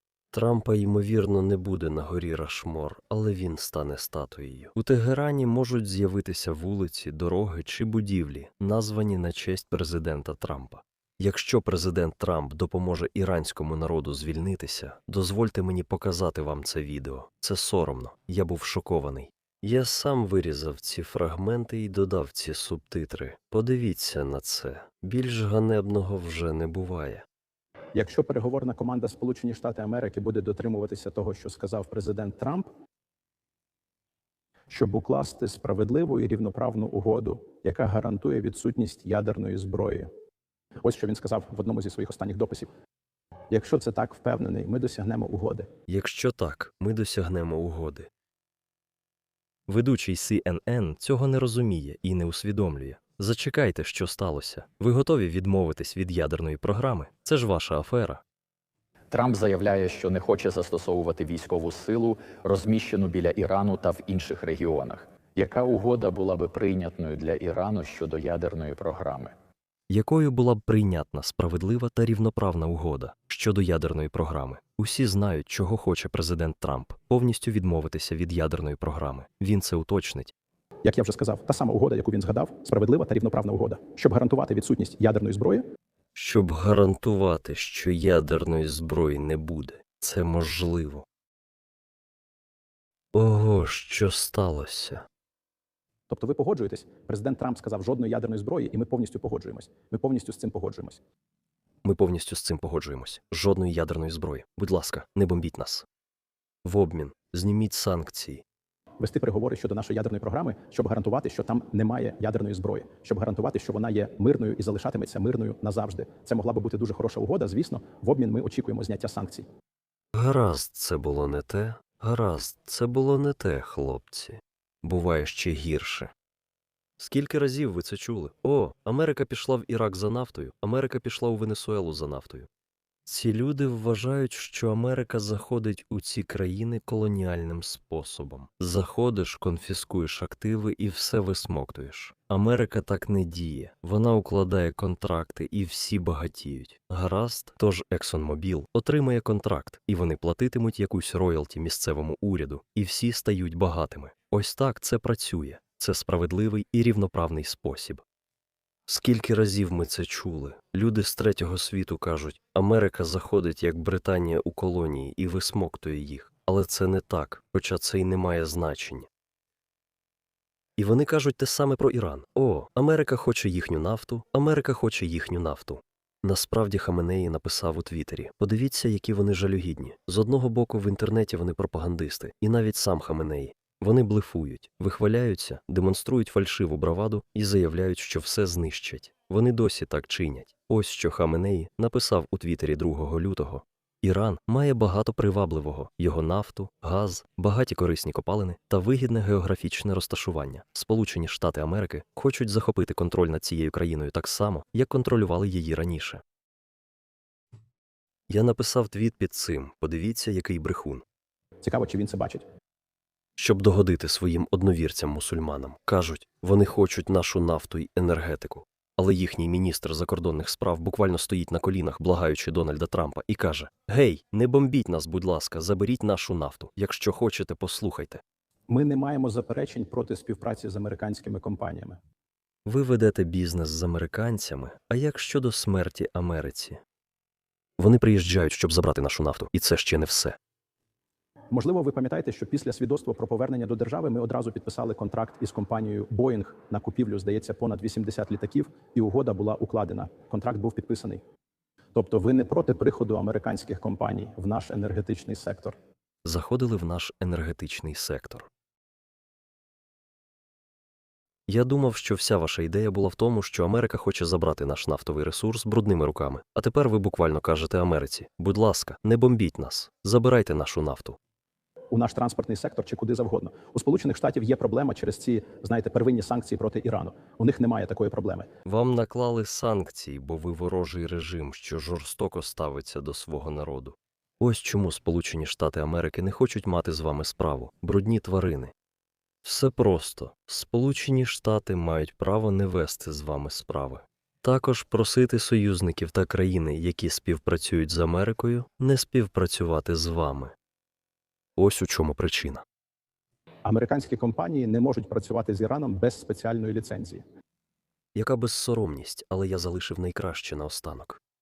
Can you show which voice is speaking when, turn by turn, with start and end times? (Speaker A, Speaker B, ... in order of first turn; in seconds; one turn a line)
Speaker A: 0.3-27.2
Speaker B: 27.9-32.7
Speaker B: 34.7-40.1
Speaker B: 40.8-42.7
Speaker B: 43.5-45.7
Speaker A: 45.9-48.1
Speaker A: 49.7-58.2
Speaker C: 59.2-69.3
Speaker A: 69.9-80.3
Speaker B: 80.8-85.6
Speaker A: 86.1-91.0
Speaker A: 93.1-95.0
Speaker B: 96.1-101.0
Speaker A: 101.8-105.8
Speaker A: 106.6-108.4
Speaker B: 109.0-119.4
Speaker A: 120.1-126.1
Speaker A: 127.0-132.5
Speaker A: 133.1-158.0
Speaker A: 158.9-169.1
Speaker A: 170.8-206.2
Speaker A: 208.3-211.0
Speaker B: 211.6-212.4
Speaker A: 213.4-228.2
Speaker B: 228.7-232.0
Speaker A: 232.7-236.8
Speaker A: 237.8-240.4
Speaker B: 241.5-251.2
Speaker B: 251.9-255.8
Speaker A: 256.2-258.5
Speaker A: 261.5-271.2
Speaker B: 271.9-278.5
Speaker A: 278.6-288.7
Speaker A: 289.4-300.5
Speaker A: 301.6-302.6
Speaker B: 303.6-307.2
Speaker A: 308.1-311.2